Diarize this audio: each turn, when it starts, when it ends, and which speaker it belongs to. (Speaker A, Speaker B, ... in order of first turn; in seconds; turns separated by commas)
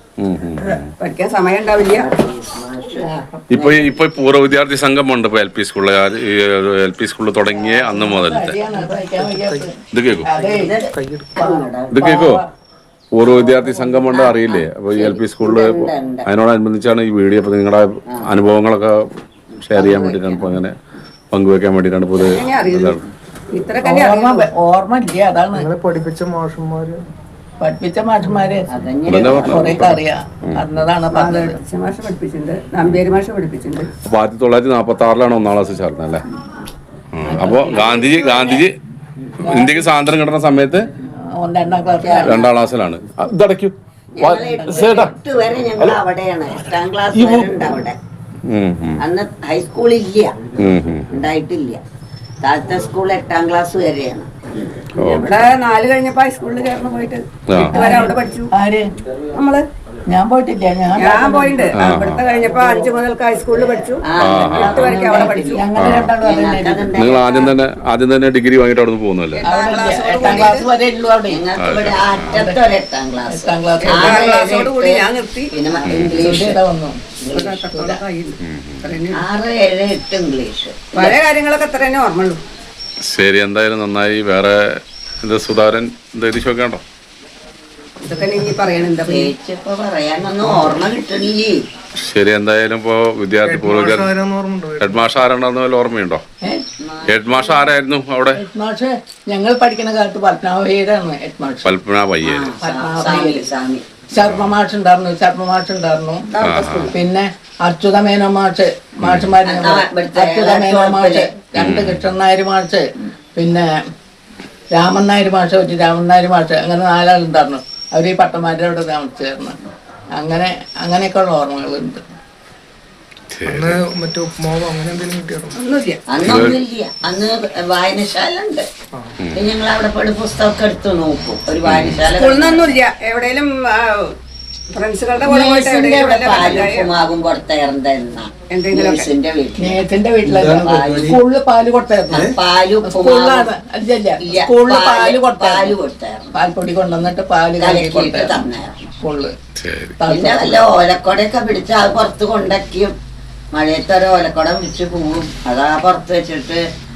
Speaker A: 0.2-0.9, Speaker B: 1.0-2.1, Speaker C: 1.8-4.0, Speaker D: 3.0-3.4, Speaker A: 3.5-8.6, Speaker D: 7.5-10.8, Speaker E: 8.9-9.7, Speaker A: 9.9-10.3, Speaker E: 10.3-11.4, Speaker C: 10.4-12.1, Speaker D: 11.4-12.4, Speaker A: 11.9-12.4, Speaker A: 13.1-19.0, Speaker C: 13.3-16.3, Speaker C: 19.6-20.6, Speaker A: 19.6-20.8, Speaker A: 21.3-23.1, Speaker B: 22.2-23.0, Speaker B: 23.5-24.5, Speaker D: 23.8-25.7, Speaker E: 25.5-27.1, Speaker D: 27.6-28.7, Speaker C: 28.7-29.8, Speaker A: 29.1-30.6, Speaker D: 29.4-31.6, Speaker B: 31.1-33.9, Speaker A: 34.0-36.2, Speaker A: 37.1-38.8, Speaker D: 37.2-38.0, Speaker C: 37.4-38.6, Speaker A: 39.4-40.9, Speaker D: 39.4-39.9, Speaker D: 41.3-42.4, Speaker C: 42.0-42.5, Speaker A: 42.2-45.1, Speaker C: 44.1-48.0, Speaker D: 44.4-45.0, Speaker A: 46.6-47.7, Speaker A: 48.5-49.0, Speaker C: 49.0-50.5, Speaker A: 50.6-51.1, Speaker C: 51.1-51.8, Speaker C: 52.4-54.7, Speaker A: 55.0-55.5, Speaker B: 55.0-58.5, Speaker A: 57.5-57.9, Speaker D: 57.7-58.9, Speaker B: 59.3-59.6, Speaker D: 60.1-61.8, Speaker B: 61.0-65.6, Speaker A: 61.8-62.3, Speaker C: 64.1-65.7, Speaker A: 64.2-65.0, Speaker D: 65.0-67.2, Speaker A: 65.8-66.1, Speaker C: 66.2-67.2, Speaker A: 67.0-69.5, Speaker B: 67.1-67.6, Speaker B: 69.3-70.7, Speaker D: 69.4-71.4, Speaker C: 71.3-76.6, Speaker A: 71.6-72.4, Speaker D: 72.3-72.6, Speaker D: 73.3-74.3, Speaker B: 73.8-75.5, Speaker A: 75.9-76.3, Speaker D: 76.1-77.0, Speaker C: 77.2-77.7, Speaker B: 77.3-79.3, Speaker D: 77.6-78.0, Speaker A: 78.4-78.9, Speaker C: 79.1-81.2, Speaker B: 81.0-82.4, Speaker A: 83.0-86.8, Speaker B: 88.0-89.3, Speaker C: 89.0-91.6, Speaker A: 92.0-94.1, Speaker E: 93.4-95.2, Speaker A: 94.8-96.2, Speaker C: 96.8-97.7, Speaker A: 97.1-98.4, Speaker D: 98.3-101.7, Speaker A: 101.6-102.5, Speaker C: 102.2-103.8, Speaker D: 102.6-103.5, Speaker D: 104.1-106.3, Speaker A: 104.2-104.5, Speaker C: 106.3-107.0, Speaker A: 106.4-106.9, Speaker D: 106.9-113.7, Speaker A: 109.0-109.3, Speaker C: 109.4-111.3, Speaker A: 111.6-112.1, Speaker D: 114.7-119.6, Speaker D: 120.2-122.0, Speaker A: 123.3-123.8, Speaker E: 123.5-125.6, Speaker B: 125.5-126.0, Speaker C: 126.1-128.7, Speaker A: 126.2-126.6, Speaker C: 129.3-132.7, Speaker A: 131.6-132.1, Speaker B: 132.1-134.1, Speaker B: 134.7-136.9, Speaker C: 135.2-139.8, Speaker D: 136.3-136.6, Speaker B: 138.5-139.1, Speaker D: 139.6-142.3, Speaker C: 140.4-141.2, Speaker C: 142.1-143.5, Speaker D: 142.8-145.8, Speaker C: 144.2-146.3, Speaker D: 146.3-148.4, Speaker C: 147.6-148.9, Speaker D: 149.0-149.3, Speaker A: 149.6-150.0, Speaker D: 150.0-150.7, Speaker C: 150.1-152.9, Speaker C: 153.5-156.7